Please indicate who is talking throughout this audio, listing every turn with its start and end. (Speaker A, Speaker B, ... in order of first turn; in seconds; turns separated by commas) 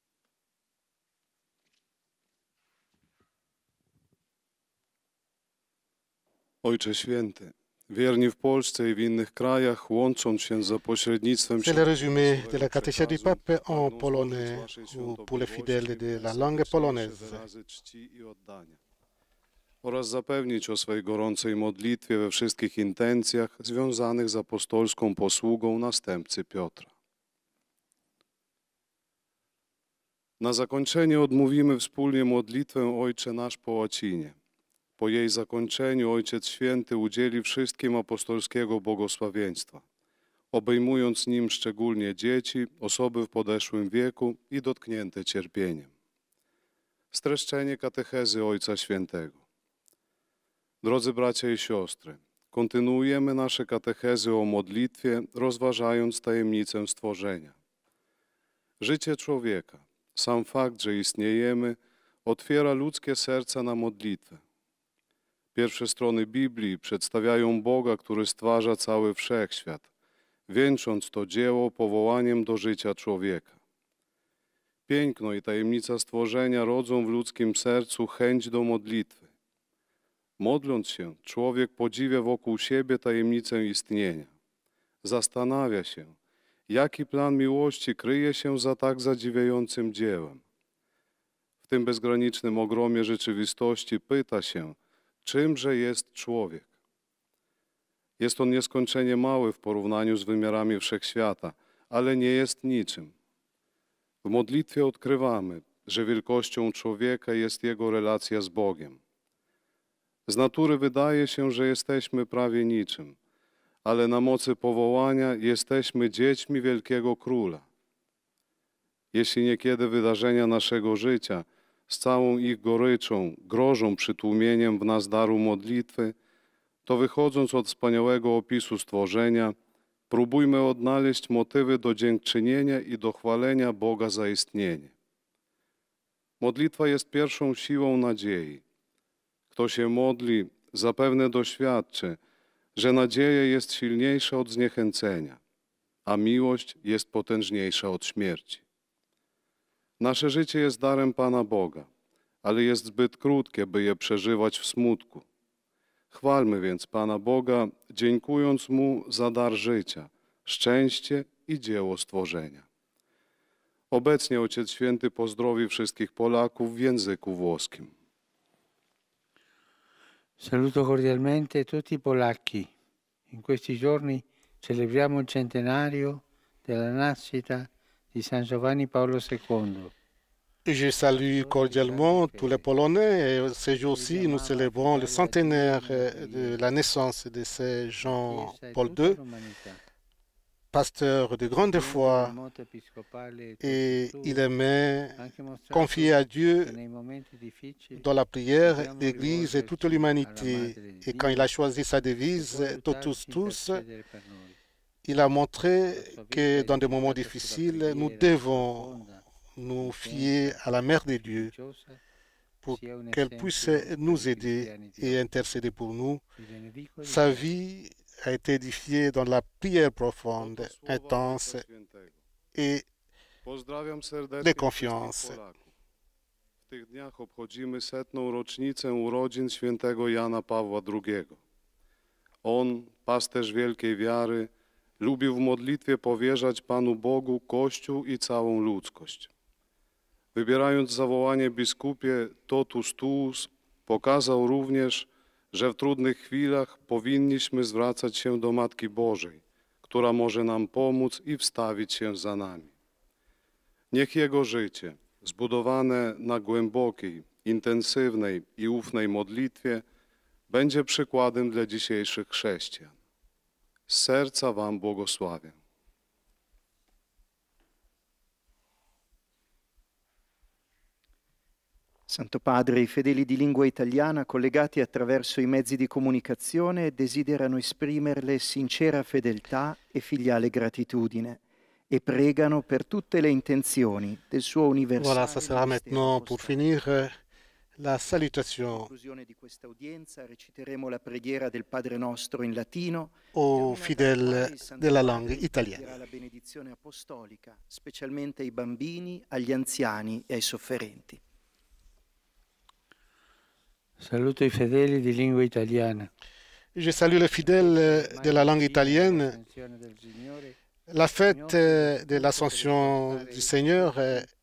Speaker A: 6.6-18.8, Speaker B: 11.6-17.4, Speaker A: 19.8-26.9, Speaker A: 30.4-34.4, Speaker A: 35.0-39.8, Speaker A: 40.5-45.9, Speaker A: 47.1-49.4, Speaker A: 50.8-57.5, Speaker A: 58.8-64.4, Speaker A: 65.5-69.9, Speaker A: 70.5-73.5, Speaker A: 74.9-79.3, Speaker A: 80.4-84.3, Speaker A: 85.0-86.1, Speaker A: 86.7-90.4, Speaker A: 91.7-96.7, Speaker A: 98.2-103.1, Speaker A: 104.2-109.0, Speaker A: 110.3-113.2, Speaker A: 113.8-117.6, Speaker A: 119.1-126.2, Speaker A: 126.9-129.6, Speaker A: 130.1-134.9, Speaker A: 136.4-138.6, Speaker A: 139.5-142.2, Speaker A: 142.8-145.4, Speaker A: 146.1-148.6, Speaker A: 150.0-151.9, Speaker A: 152.4-155.2, Speaker A: 156.1-162.7, Speaker A: 163.9-167.9, Speaker C: 170.4-172.7, Speaker C: 173.3-179.9, Speaker B: 180.7-189.2, Speaker C: 181.2-182.7, Speaker C: 183.9-186.6, Speaker C: 188.0-189.8, Speaker B: 190.7-192.3, Speaker C: 191.7-194.4, Speaker B: 193.6-195.2, Speaker C: 195.2-198.1, Speaker B: 195.7-196.7, Speaker B: 198.0-203.8, Speaker C: 198.6-201.5, Speaker C: 202.3-204.6, Speaker B: 205.1-209.0, Speaker C: 205.9-209.2, Speaker B: 209.6-211.5, Speaker C: 209.8-210.6, Speaker C: 211.2-212.0, Speaker B: 212.6-216.2, Speaker C: 212.7-215.3, Speaker C: 216.4-217.5, Speaker B: 217.0-221.6, Speaker A: 220.4-222.2, Speaker B: 222.6-222.9, Speaker A: 223.4-225.7, Speaker B: 224.4-225.4, Speaker A: 226.7-231.4, Speaker A: 232.4-239.3, Speaker A: 240.3-252.7, Speaker A: 253.9-259.8, Speaker A: 260.5-262.9, Speaker A: 263.9-265.6, Speaker D: 272.1-286.6, Speaker B: 285.0-287.2, Speaker B: 287.8-288.9, Speaker D: 288.7-301.2, Speaker B: 293.3-295.9, Speaker C: 304.0-306.1, Speaker B: 306.8-309.4, Speaker C: 307.4-310.6, Speaker B: 310.9-314.3, Speaker C: 311.3-314.3